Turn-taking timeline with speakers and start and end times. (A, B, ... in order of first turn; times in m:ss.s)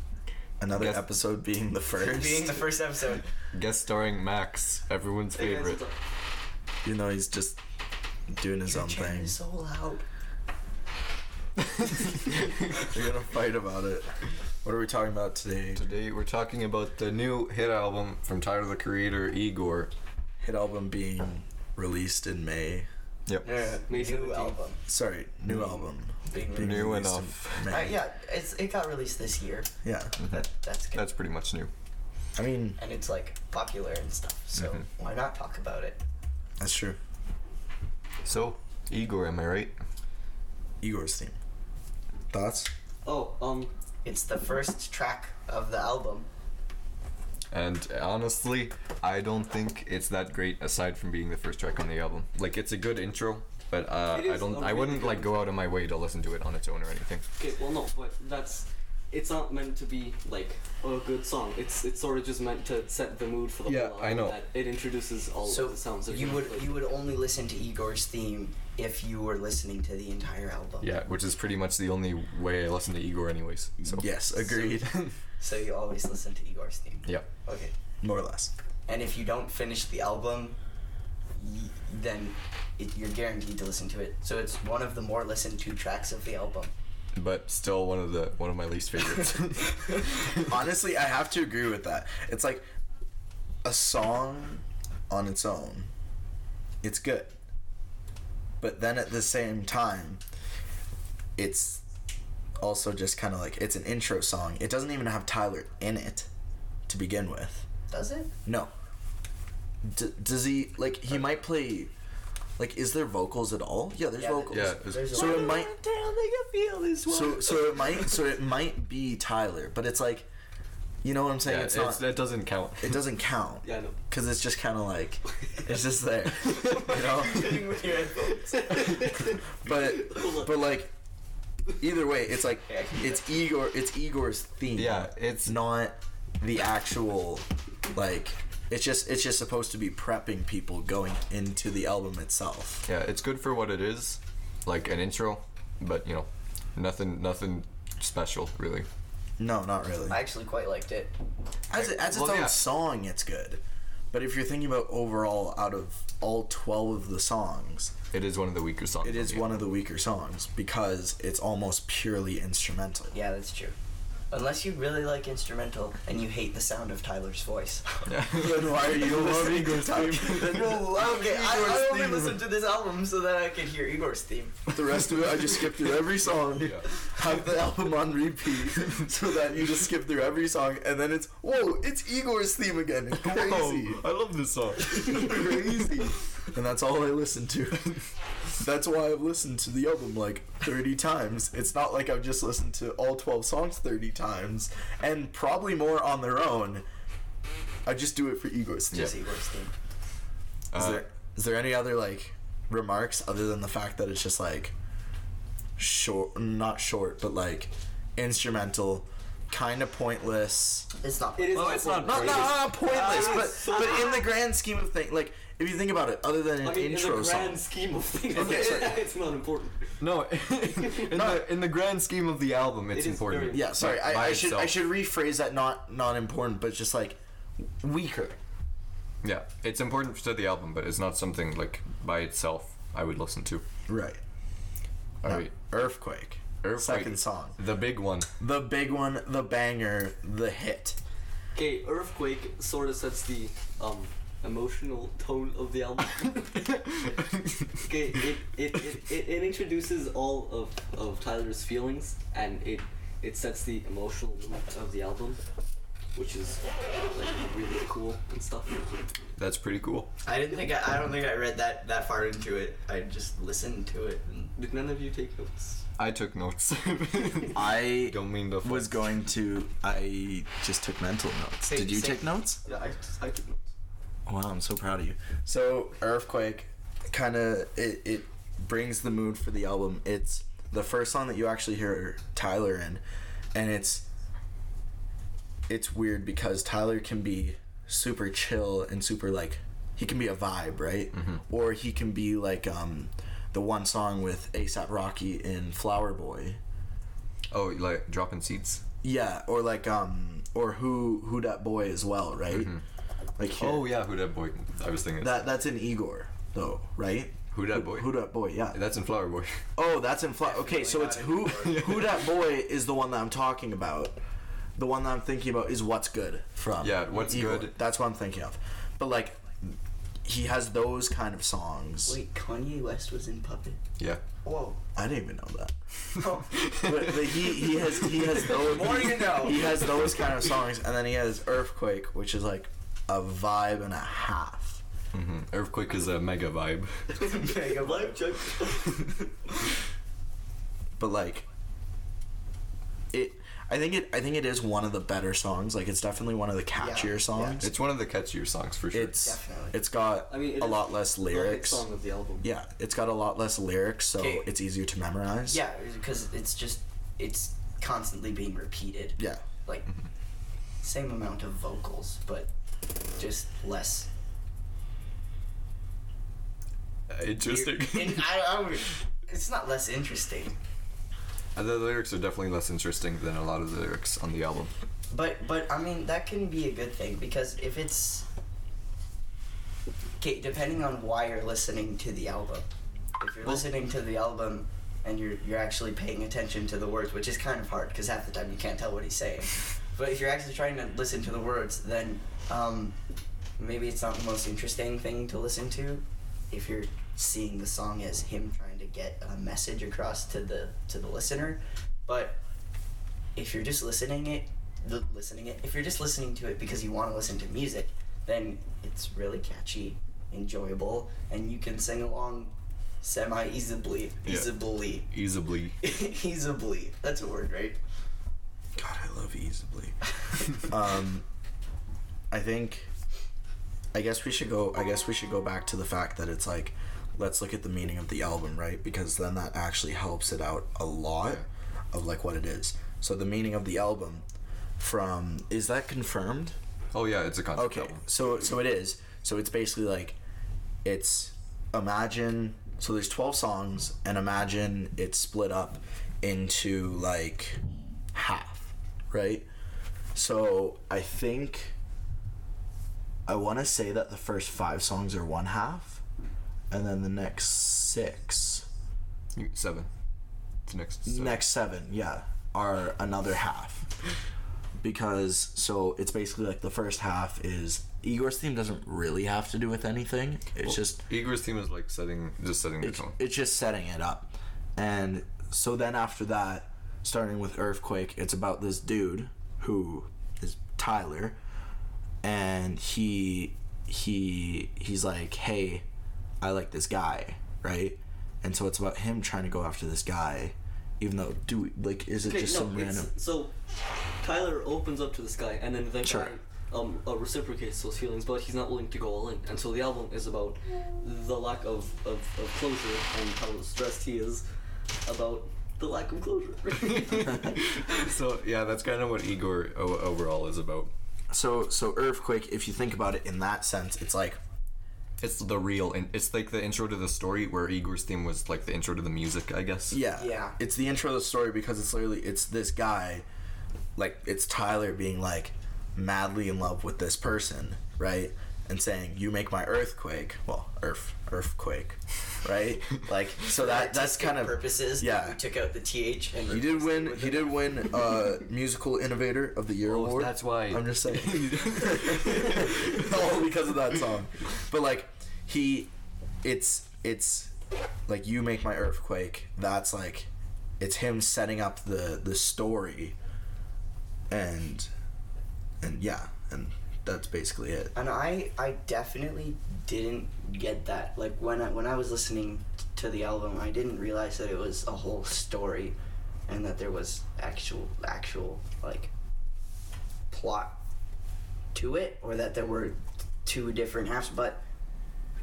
0:00.6-0:02.7 A
0:00.7-0:01.0 B
0:02.0-0:03.3 C
0:03.5-0:05.8 B
0:05.4-0:06.0 D
0:06.8-0:07.6 A
0:08.3-0:09.4 A
0:08.7-0:10.0 C
0:12.8-0:15.8 A
0:15.8-0:19.9 B
0:20.4-0:22.9 A
0:23.4-0:24.8 C
0:23.9-0:24.6 D
0:24.9-0:27.9 A
0:25.5-0:25.9 B
0:26.3-0:27.0 C
0:26.6-0:27.8 B
0:27.7-0:29.7 C
0:29.8-0:30.2 A
0:30.2-0:31.7 B
0:30.3-0:31.1 C
0:32.4-0:32.8 A
0:32.8-0:36.0 C
0:36.6-0:37.0 A
0:38.2-0:39.7 B
0:40.8-0:41.4 A
0:42.3-0:42.7 A
0:43.0-0:43.7 D
0:44.0-0:46.3 C
0:47.5-0:57.3 B
0:54.1-0:55.6 D
0:57.4-1:06.8 D
1:03.7-1:04.4 B
1:05.5-1:10.9 C
1:10.8-1:14.1 B
1:13.8-1:15.0 A
1:14.4-1:14.8 C
1:14.6-1:15.1 B
1:15.4-1:17.7 C
1:18.0-1:18.5 A
1:18.9-1:20.6 C
1:21.4-1:26.7 C
1:27.2-1:30.5 B
1:30.4-1:32.6 A
1:33.6-1:35.9 A
1:36.8-1:37.3 A
1:38.6-1:40.2 A
1:41.4-1:41.8 A
1:42.6-1:46.3 A
1:46.9-1:47.7 A
1:47.9-1:48.3 C
1:48.5-1:48.7 A
1:49.8-1:51.9 A
1:52.6-1:55.7 A
1:54.2-1:55.7 C
1:54.5-1:57.9 B
1:57.1-2:00.3 A
2:01.0-2:02.1 A
2:01.4-2:03.1 B
2:02.8-2:07.6 A
2:03.6-2:04.0 D
2:06.6-2:09.1 C
2:08.6-2:10.6 D
2:09.6-2:10.9 A
2:11.8-2:22.9 A
2:12.7-2:13.3 C
2:14.8-2:15.6 B
2:22.9-2:28.9 B
2:29.4-2:30.2 A
2:30.1-2:31.1 C
2:31.7-2:38.0 A
2:31.7-2:32.6 B
2:38.1-2:39.7 B
2:39.0-2:43.2 A
2:43.1-2:43.8 C
2:44.3-2:48.1 C
2:48.1-2:50.6 B
2:48.3-2:52.4 A
2:50.2-2:54.6 C
2:54.7-3:04.0 A
2:56.6-2:56.9 B
3:03.1-3:06.2 B
3:05.1-3:08.0 A
3:08.6-3:16.8 A
3:17.9-3:19.2 A
3:18.9-3:19.7 C
3:20.7-3:21.0 B
3:20.7-3:24.7 A
3:25.8-3:30.9 A
3:31.0-3:32.6 C
3:31.4-3:34.2 D
3:31.5-3:32.7 B
3:31.9-3:37.6 A
3:36.6-3:40.0 D
3:38.3-3:39.0 A
3:38.3-3:38.9 B
3:40.0-3:44.8 B
3:40.8-3:41.3 D
3:41.1-3:41.4 A
3:42.9-3:43.8 D
3:43.5-3:48.4 A
3:49.2-3:53.6 B
3:53.9-3:54.2 A
3:55.2-3:55.5 B
3:55.2-3:57.6 A
3:56.6-3:58.3 B
3:58.4-4:01.0 A
4:01.6-4:07.1 D
4:07.8-4:15.4 D
4:16.1-4:19.1 D
4:19.4-4:20.1 B
4:20.2-4:24.5 C
4:24.6-4:25.8 D
4:26.0-4:29.0 B
4:27.5-4:32.6 A
4:31.6-4:32.4 C
4:32.6-4:33.7 D
4:34.3-4:43.0 A
4:43.5-4:44.1 A
4:45.7-4:56.6 A
4:51.1-4:51.4 B
4:57.5-4:58.8 B
4:59.0-5:02.7 A
5:02.5-5:02.8 B
5:03.4-5:03.9 A
5:03.5-5:05.4 B
5:05.2-5:08.8 A
5:07.5-5:09.6 B
5:09.8-5:14.2 A
5:10.4-5:12.0 C
5:11.6-5:12.2 B
5:14.8-5:22.2 A
5:16.8-5:17.8 B
5:22.1-5:23.8 C
5:24.4-5:24.8 C
5:25.0-5:25.8 A
5:26.2-5:26.6 C
5:26.6-5:34.8 A
5:26.7-5:27.0 B
5:28.4-5:29.8 C
5:35.1-5:37.1 B
5:37.2-5:38.6 C
5:37.3-5:39.2 D
5:41.0-5:41.4 A
5:43.1-5:47.8 A
5:46.8-5:47.6 C
5:47.6-5:49.2 B
5:48.9-5:51.9 A
5:49.2-5:49.8 C
5:50.3-5:52.5 D
5:52.4-5:55.6 A
5:54.2-5:54.5 C
5:55.5-5:59.9 C
5:59.2-5:59.4 A
6:00.8-6:02.5 C
6:03.2-6:04.1 C
6:07.1-6:08.3 B
6:07.4-6:10.6 C
6:11.6-6:14.7 B
6:15.1-6:18.3 C
6:20.2-6:22.7 C
6:23.2-6:33.0 C
6:33.6-6:42.4 C
6:43.4-6:55.1 C
6:54.2-6:55.8 B
6:55.8-6:57.8 C
6:58.8-7:01.2 A
7:02.3-7:02.9 A
7:03.9-7:14.2 A
7:14.8-7:16.6 A
7:16.9-7:18.0 B
7:17.6-7:20.2 A
7:20.8-7:27.6 A
7:28.1-7:29.5 A
7:30.2-7:31.7 A
7:33.3-7:36.0 A
7:36.7-7:38.7 A
7:39.3-7:39.9 B
7:40.7-7:41.4 B
7:41.1-7:43.9 A
7:44.8-7:51.0 A
7:50.6-7:53.2 B
7:52.8-8:01.4 A
8:02.2-8:05.8 A
8:06.4-8:13.1 A
8:12.2-8:13.5 D
8:14.2-8:24.4 D
8:16.0-8:16.4 A
8:25.0-8:28.0 D
8:27.0-8:30.9 B
8:31.3-8:34.4 A
8:35.2-8:40.0 B
8:39.9-8:43.3 A
8:40.2-8:40.6 C
8:44.0-8:55.4 A
8:53.5-8:57.9 C
8:56.5-9:05.9 A
8:59.8-9:03.1 B
9:06.4-9:07.5 A
9:08.1-9:10.3 A
9:10.8-9:13.2 A
9:14.3-9:14.9 A
9:15.8-9:17.9 A
9:18.0-9:26.0 C
9:26.5-9:29.1 C
9:30.3-9:30.8 C
9:31.7-9:34.6 C